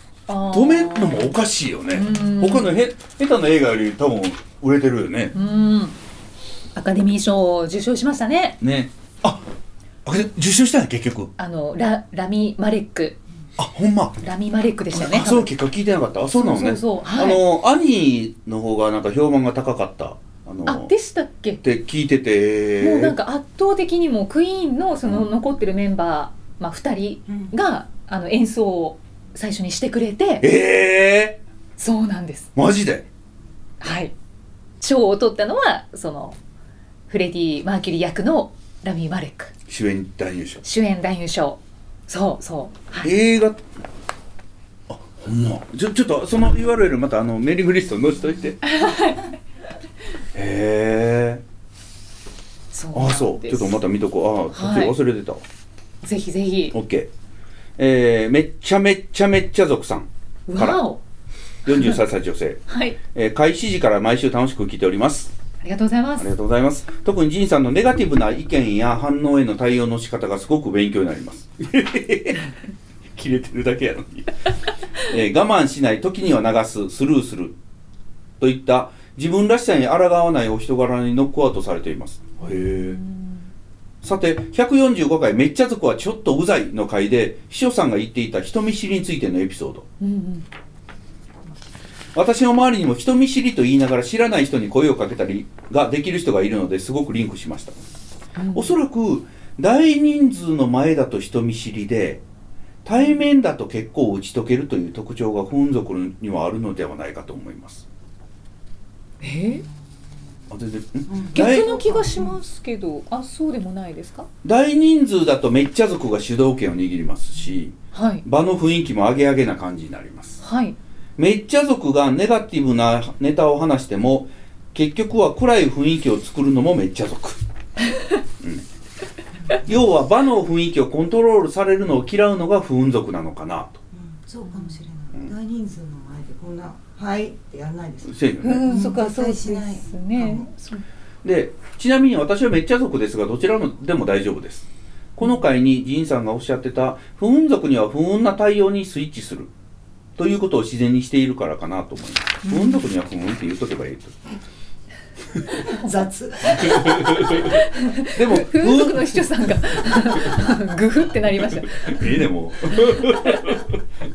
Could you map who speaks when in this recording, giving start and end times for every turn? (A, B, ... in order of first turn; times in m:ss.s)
0:00.3-0:01.4 A
0:00.5-0:05.3 B
0:01.9-0:02.8 A
0:05.3-0:06.0 A
0:06.7-0:08.6 A
0:08.6-0:09.4 B
0:10.0-0:11.3 B
0:11.4-0:13.2 A
0:13.6-0:14.2 B
0:14.2-0:15.5 A
0:14.9-0:20.9 B
0:16.3-0:17.4 A
0:20.6-0:21.6 A
0:21.6-0:23.2 B
0:22.8-0:30.5 A
0:27.3-0:27.5 C
0:30.4-0:31.4 B
0:31.8-0:32.5 A
0:32.6-0:33.0 B
0:33.8-0:34.1 A
0:34.8-0:36.4 A
0:37.1-0:39.5 A
0:39.7-0:40.6 B
0:40.6-0:43.1 A
0:43.0-0:43.6 B
0:44.9-0:48.6 B
0:48.6-0:49.2 A
0:50.3-0:51.4 B
0:52.7-0:53.8 A
0:52.9-0:55.4 B
0:54.5-0:55.0 A
0:56.0-0:56.8 A
0:56.7-0:57.1 B
0:57.8-1:00.8 B
1:00.5-1:01.0 A
1:01.6-1:05.3 B
1:02.7-1:03.0 A
1:05.6-1:06.3 A
1:06.2-1:12.5 B
1:13.1-1:14.4 B
1:15.0-1:17.6 B
1:18.4-1:23.0 B
1:22.4-1:23.4 A
1:24.0-1:29.8 B
1:30.0-1:30.4 A
1:32.1-1:37.8 B
1:38.4-1:38.7 A
1:38.5-1:42.2 B
1:42.8-1:47.8 B
1:49.2-1:49.6 A
1:49.4-1:49.7 C
1:50.5-1:51.8 B
1:51.1-1:52.4 C
1:51.3-1:54.3 A
1:54.4-2:00.4 B
1:57.9-1:58.2 A
2:00.4-2:00.8 A
2:01.2-2:07.4 B
2:09.6-2:13.8 B
2:13.9-2:20.5 C
2:14.4-2:14.8 A
2:18.0-2:18.7 B
2:18.4-2:20.8 A
2:21.2-2:29.5 B
2:30.2-2:34.2 B
2:32.4-2:32.8 A
2:35.6-2:35.8 A
2:35.7-2:37.4 C
2:36.6-2:37.5 B
2:37.3-2:42.1 A
2:38.1-2:39.5 B
2:41.5-2:43.8 B
2:42.8-2:43.2 A